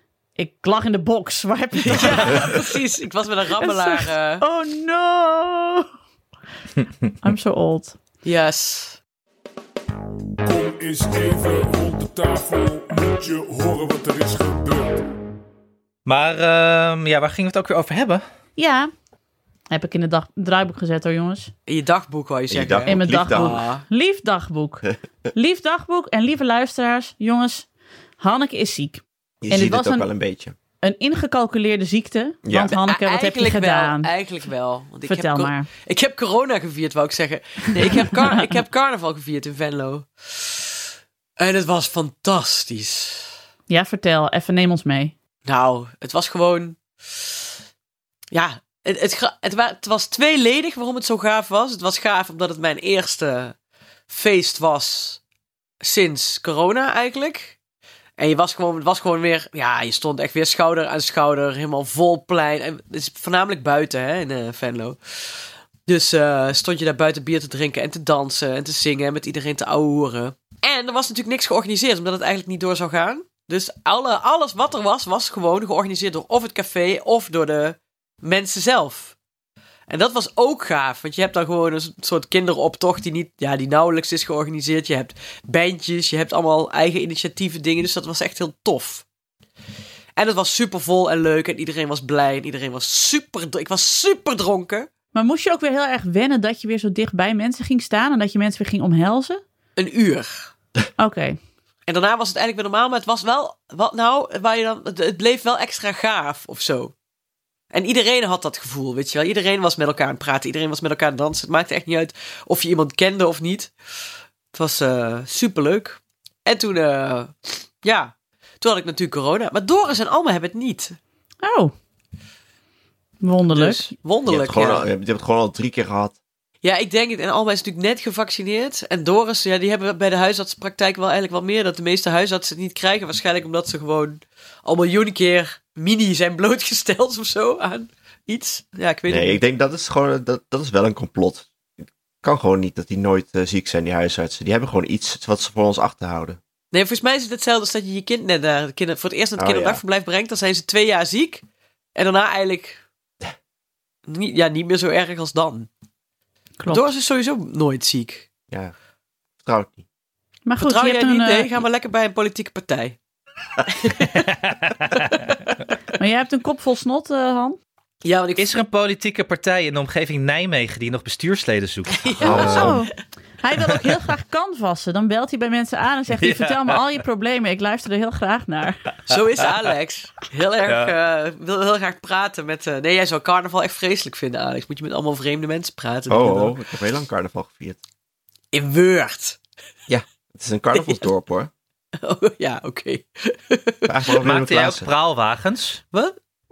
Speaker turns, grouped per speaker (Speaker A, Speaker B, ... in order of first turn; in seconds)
Speaker A: 0.3-2.6, 3.6-5.9, 7.2-8.0, 18.6-18.9, 19.7-21.5, 22.9-27.7, 28.2-30.1, 30.8-34.1, 35.0-35.7, 37.8-38.5, 43.7-45.1, 95.1-99.4, 101.0-101.4, 121.4-121.7, 123.2-123.9, 156.6-156.8, 160.4-161.5, 166.0-167.6, 172.3-178.8
Speaker B: 1.9-4.4, 8.2-9.0, 21.7-23.8, 32.7-40.8, 41.4-43.3, 45.4-47.4, 48.3-53.5, 54.1-55.2, 55.8-57.6, 58.2-79.1, 79.9-89.0, 90.2-94.9, 99.8-100.5, 101.9-106.9, 107.7-113.7, 114.5-121.0, 123.5-124.9, 126.6-139.4, 146.7-152.8, 154.1-155.7, 156.7-158.3, 160.6-163.0, 163.7-164.2, 168.0-168.6, 171.9-172.8, 179.1-186.6, 188.5-189.4, 190.7-191.0, 192.0-194.2
Speaker C: 10.4-15.1
Speaker D: 16.0-18.2, 164.2-165.0, 168.4-172.8, 176.2-176.8, 180.7-180.9, 194.2-195.8
Speaker E: 22.5-23.6, 29.4-30.5, 32.4-32.7, 124.2-126.2, 139.1-141.5, 142.2-146.4, 149.4-149.8, 159.4-159.8, 172.2-172.6, 186.1-187.8, 189.9-191.5, 193.9-194.9